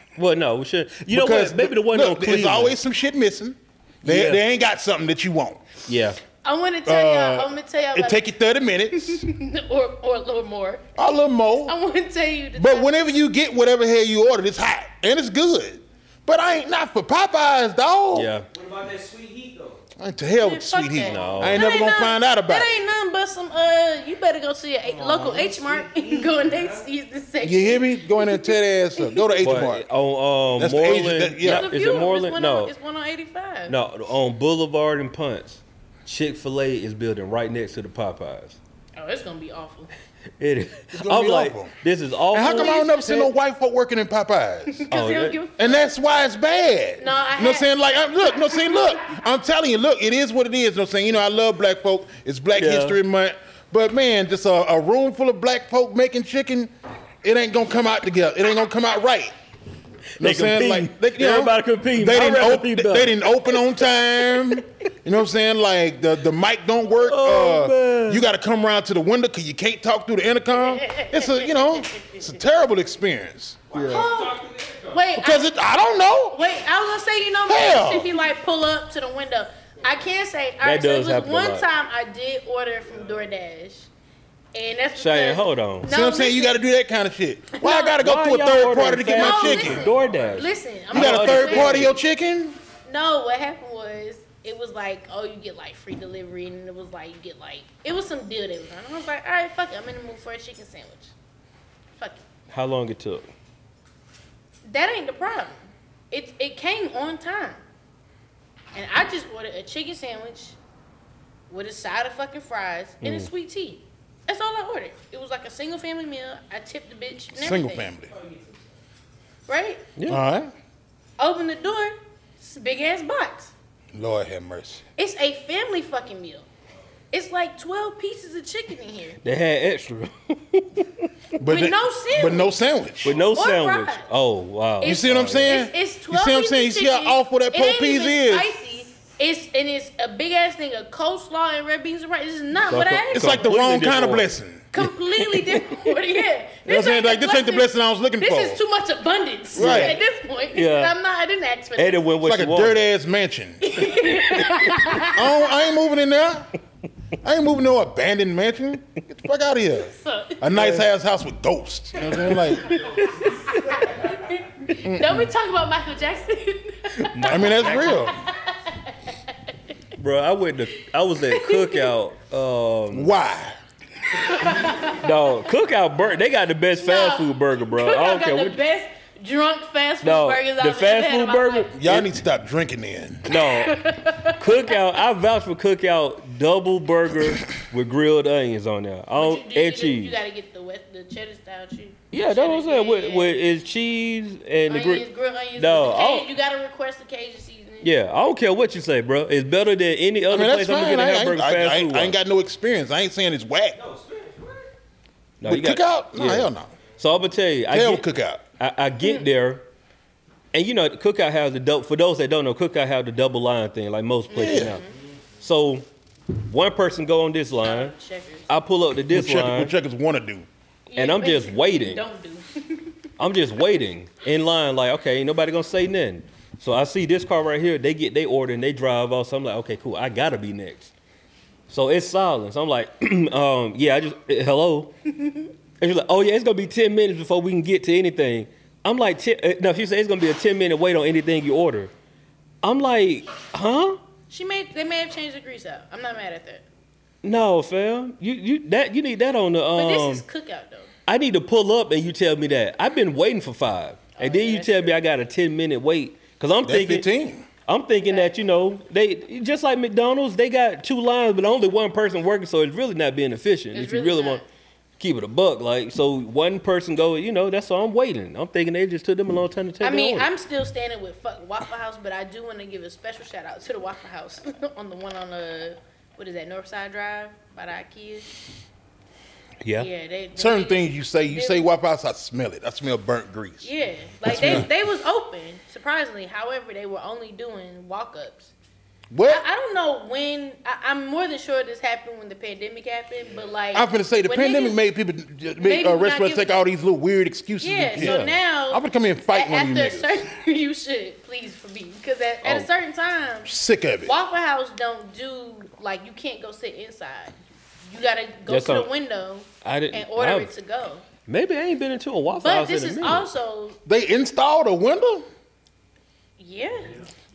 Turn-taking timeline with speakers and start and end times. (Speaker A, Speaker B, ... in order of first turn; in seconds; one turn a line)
Speaker A: 0.1-2.8
Speaker B: 1.1-5.7
Speaker A: 4.0-4.4
Speaker A: 5.9-6.2
Speaker C: 6.4-8.2
Speaker B: 6.8-9.3
Speaker C: 8.9-10.9
Speaker B: 10.9-11.7
Speaker C: 11.7-13.1
Speaker B: 12.5-18.3
Speaker A: 18.1-18.5
Speaker D: 18.5-19.8
Speaker B: 20.0-22.8
Speaker C: 20.4-29.3
Speaker A: 21.1-21.6
Speaker D: 24.9-26.9
Speaker B: 27.4-29.9
Speaker A: 29.4-32.7
Speaker B: 30.6-31.7
Speaker C: 31.4-33.7
Speaker A: 33.7-38.6
Speaker C: 39.0-39.9
Speaker A: 40.4-43.1
Speaker B: 40.9-41.8
Speaker B: 42.3-44.9
Speaker C: 42.5-43.3
Speaker C: 44.7-45.9
Speaker A: 44.9-45.4
Speaker B: 45.6-56.7
Speaker C: 47.0-47.7
Speaker C: 48.2-48.9
Speaker A: 52.5-53.0
Speaker B: 57.2-59.3
Speaker A: 60.2-63.6
Speaker B: 60.2-73.8
Speaker A: 67.0-68.2
Speaker C: 70.6-72.2
Speaker D: 73.7-75.1
Speaker C: 73.8-75.5
Speaker B: 75.2-76.5
Speaker C: 76.3-83.9
Speaker B: 77.5-78.1
Speaker A: 80.6-81.7
Speaker C: 84.5-86.6
Speaker A: 85.0-85.9
Speaker B: 85.8-89.9
Speaker C: 87.6-87.9
Speaker A: 87.6-92.0
Speaker C: 89.2-91.9
Speaker B: 90.9-92.6
Speaker C: 92.8-101.1
Speaker C: 102.0-102.2
Speaker A: 102.5-103.3
Speaker C: 104.7-107.6
Speaker C: 108.7-110.6
Speaker C: 111.5-117.9
Speaker A: 113.0-113.3
Speaker B: 117.3-118.1
Speaker D: 118.1-118.7
Speaker C: 119.5-119.8
Speaker A: 120.0-120.2
Speaker B: 120.1-120.5
Speaker C: 121.2-123.5
Speaker B: 123.9-124.8
Speaker C: 125.0-126.5
Speaker C: 127.1-129.2
Speaker A: 129.2-131.3
Speaker B: 131.4-133.1
Speaker C: 131.4-132.6
Speaker A: 133.0-135.7
Speaker C: 133.1-134.1
Speaker C: 134.8-143.6
Speaker B: 134.8-138.5
Speaker A: 142.7-145.8
Speaker B: 143.1-144.7
Speaker C: 144.7-152.0
Speaker B: 146.6-148.6
Speaker B: 149.5-150.0
Speaker A: 149.6-150.0
Speaker A: 150.5-150.9
Speaker A: 151.8-152.8
Speaker B: 152.2-153.9
Speaker C: 153.6-155.5
Speaker B: 155.0-156.5
Speaker B: 157.2-162.8
Speaker C: 159.9-160.5
Speaker A: 160.5-160.9
Speaker C: 162.0-169.5
Speaker D: 162.7-164.2
Speaker B: 164.8-165.3
Speaker A: 167.0-168.1
Speaker B: 167.2-168.1
Speaker A: 170.0-173.1
Speaker C: 171.3-171.9
Speaker B: 172.9-173.6
Speaker C: 174.2-175.1
Speaker A: 174.9-178.6
Speaker C: 176.8-181.7
Speaker A: 180.0-182.1
Speaker B: 181.7-183.3
Speaker A: 183.3-190.2
Speaker C: 183.4-184.8
Speaker C: 189.1-193.3
Speaker A: 192.1-196.3
Speaker C: 194.7-197.9
Speaker A: 197.8-202.2
Speaker B: 200.3-203.8
Speaker D: 203.7-204.7
Speaker A: 205.4-208.1
Speaker B: 205.4-206.7
Speaker B: 207.7-208.4
Speaker A: 208.6-209.6
Speaker A: 210.5-214.8
Speaker C: 214.3-214.9
Speaker B: 214.4-214.7
Speaker A: 215.4-215.8
Speaker A: 216.4-217.9
Speaker C: 217.6-218.5
Speaker A: 218.5-219.7
Speaker B: 219.1-220.5
Speaker C: 220.9-222.9
Speaker A: 221.0-222.0
Speaker A: 223.2-230.9
Speaker A: 231.7-234.9
Speaker A: 235.8-241.9
Speaker A: 242.6-244.0
Speaker C: 244.3-246.6
Speaker A: 247.2-250.2
Speaker C: 249.7-250.9
Speaker A: 251.1-257.1
Speaker C: 254.2-255.0
Speaker B: 256.6-257.5
Speaker A: 257.7-264.4
Speaker C: 258.1-258.4
Speaker C: 263.7-264.4
Speaker A: 265.0-270.3
Speaker C: 269.8-278.3
Speaker A: 279.6-279.9
Speaker C: 279.8-281.7
Speaker B: 280.4-283.7
Speaker C: 283.6-288.5
Speaker B: 284.2-284.7
Speaker A: 284.3-284.6
Speaker B: 289.1-289.4
Speaker C: 289.2-294.8
Speaker B: 293.7-300.2
Speaker C: 295.6-296.5
Speaker C: 297.6-303.5
Speaker A: 297.9-298.3
Speaker B: 303.4-304.1
Speaker C: 304.0-307.4
Speaker C: 307.9-311.0
Speaker A: 308.4-308.9
Speaker A: 309.6-310.5
Speaker A: 311.3-313.3
Speaker C: 312.4-313.8
Speaker B: 313.8-315.2
Speaker C: 316.4-317.0